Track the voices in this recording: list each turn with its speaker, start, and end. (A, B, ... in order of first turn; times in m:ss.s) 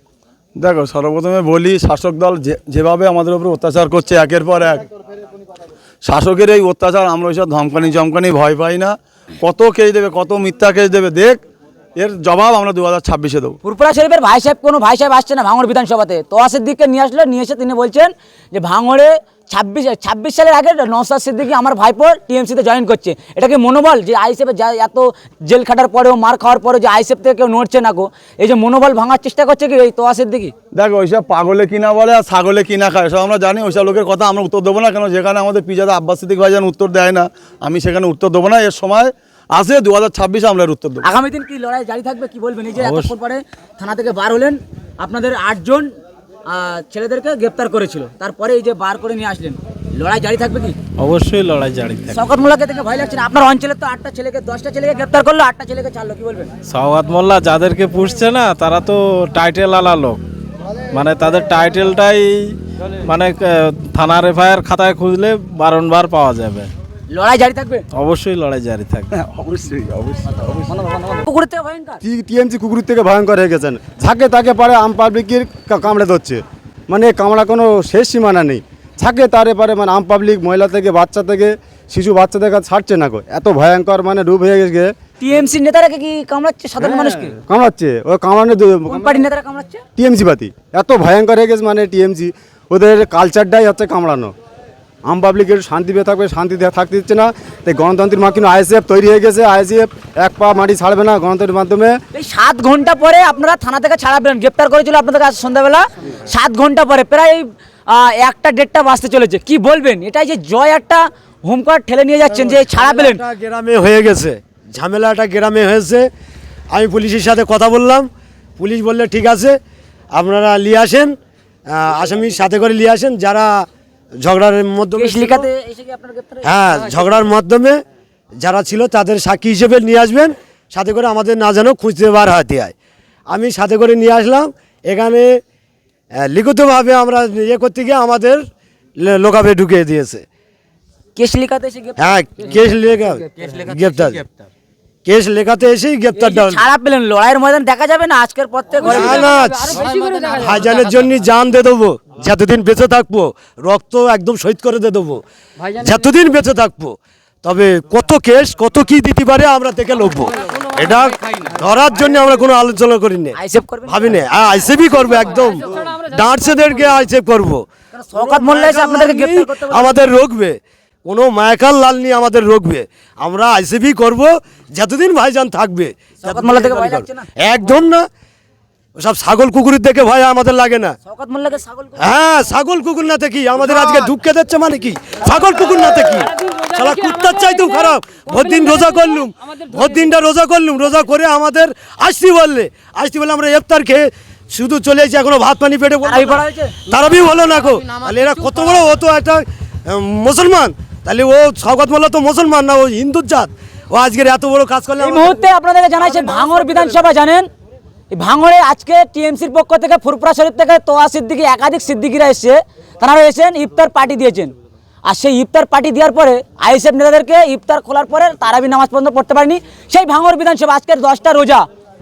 0:00.6-0:04.9 A
0:06.0-0:11.4 A
0:12.0-0:13.6 A
0:13.6-0:30.5 B
0:30.7-0:41.0 A
0:41.0-0:45.9 B
0:42.8-0:43.1 C
0:46.5-0:50.8 B
0:51.0-0:52.2 C
0:52.1-0:56.5 B
0:56.7-1:00.2 C
1:00.9-1:06.7 C
1:07.1-1:07.8 B
1:07.9-1:09.1 C
1:09.1-1:10.7 A
1:10.7-1:12.0 B
1:12.0-1:24.9 D
1:25.2-1:27.4 B
1:27.0-1:29.2 D
1:28.9-1:29.8 B
1:30.0-1:34.3 D
1:35.0-1:42.0 D
1:42.1-1:53.2 B
1:52.7-1:56.1 E
1:56.7-1:59.6 E
2:00.1-2:01.2 E
2:01.7-2:03.7 E
2:04.2-2:05.5 E
2:04.9-2:07.1 B
2:06.4-2:07.8 E
2:08.4-2:12.7 E
2:13.3-2:15.4 E
2:16.2-2:18.4 E
2:19.0-2:20.2 E
2:21.2-2:24.0 B
2:22.0-2:24.2 E
2:25.0-2:26.6 E
2:26.1-2:30.5 B
2:28.9-2:47.6 E
2:43.3-2:44.2 B
2:47.9-2:50.1 B
2:48.2-2:58.0 E
2:56.2-2:57.3 B
2:59.0-3:00.9 E
3:01.0-3:02.1 B
3:02.0-3:25.4 E
3:16.0-3:16.8 B
3:25.0-3:27.5 B
3:28.1-3:34.5 B
3:35.0-3:41.6 B